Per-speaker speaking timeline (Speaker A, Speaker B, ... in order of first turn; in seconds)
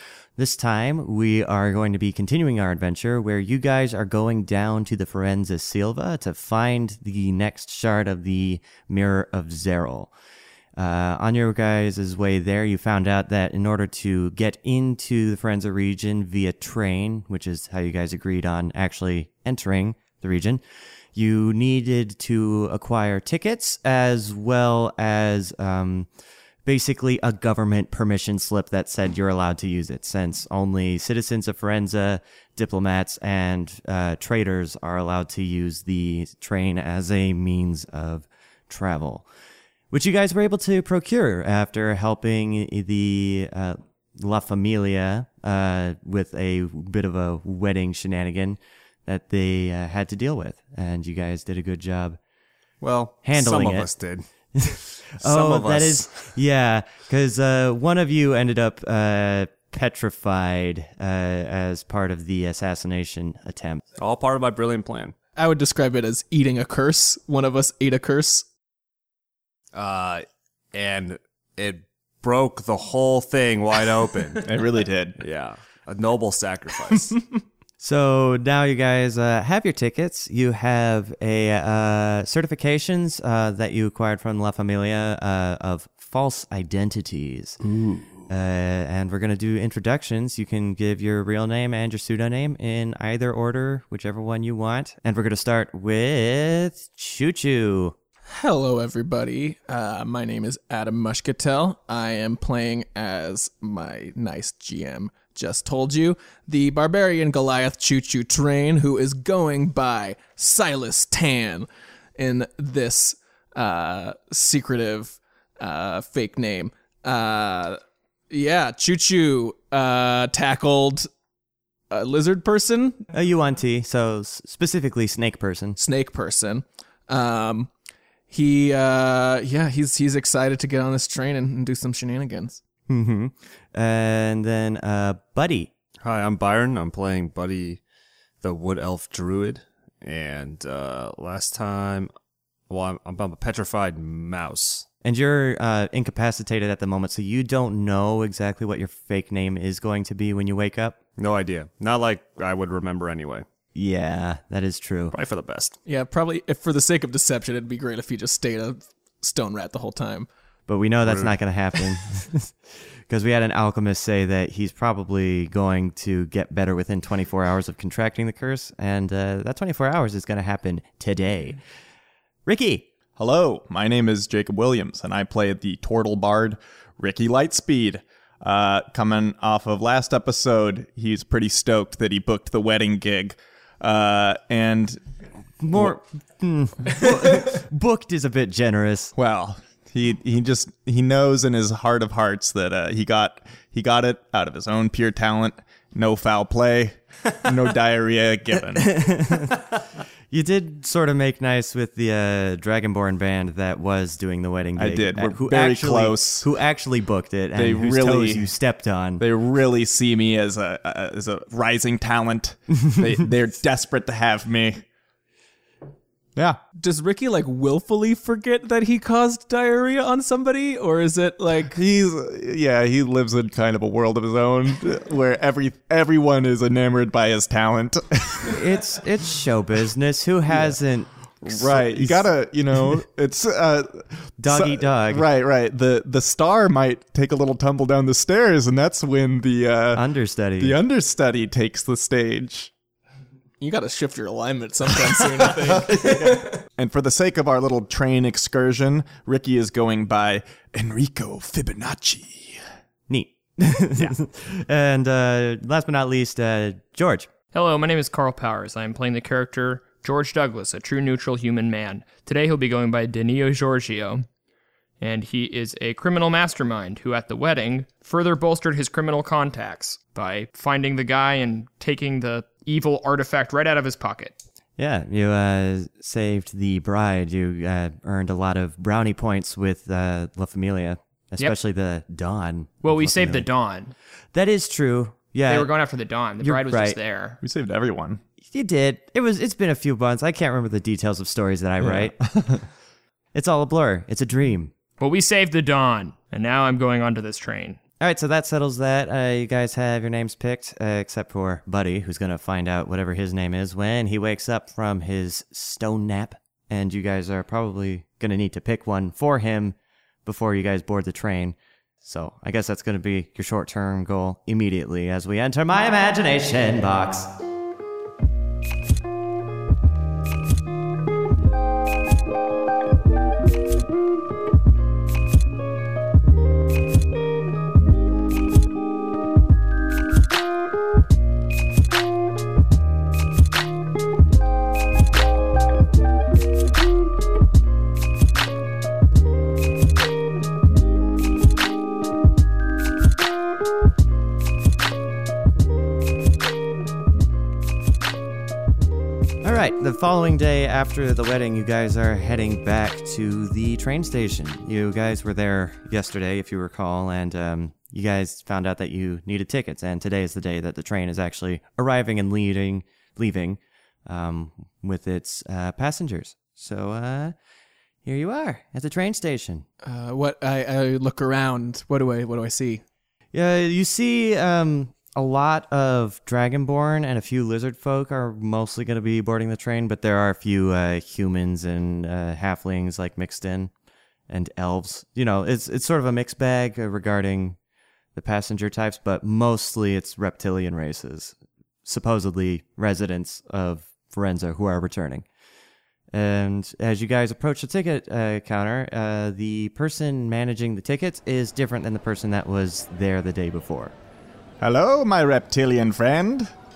Speaker A: 0.4-10.1, 10.8-20.6, 21.1-26.1, 26.6-39.3, 39.9-52.2, 53.2-53.9, 54.5-63.8, 77.8-87.6, 88.3-97.9, 123.1-125.8, 132.9-135.7, 145.0-151.0, 153.7-155.1, 160.7-162.5, 163.1-171.6, 172.4-172.9, 185.6-189.1, 198.8-199.7, 200.3-209.2, 228.5-232.3, 234.4-235.2, 239.9-240.8, 253.1-257.3, 274.8-283.5, 284.3-285.7, 286.4-287.0, 288.5-292.1, 293.3-294.7, 298.0-317.3, 349.4-367.3, 368.0-369.6, 373.3-383.7, 384.3-387.6, 388.1-391.3, 391.9-395.2, 396.1-403.9
Speaker B: 52.8-54.2, 55.2-56.3, 64.0-65.1, 69.7-74.5, 75.2-77.2, 87.7-88.2, 136.0-137.8, 138.4-142.1, 142.7-144.8, 151.2-153.4, 155.1-155.8
Speaker C: 65.3-68.5, 98.3-121.1, 121.9-123.1, 125.8-127.7, 128.3-132.6, 155.8-160.3, 216.8-221.8, 243.6-246.1, 369.8-372.8
Speaker D: 74.4-75.2, 173.2-185.0, 189.2-199.0, 204.8-206.4, 207.5-208.5, 209.2-214.8, 221.7-228.5, 231.4-240.0, 240.6-242.7, 245.8-252.6, 287.4-288.2, 291.8-292.6, 404.6-406.5
Speaker E: 257.5-264.2, 265.0-274.3, 282.8-283.9, 285.5-287.4, 295.0-297.8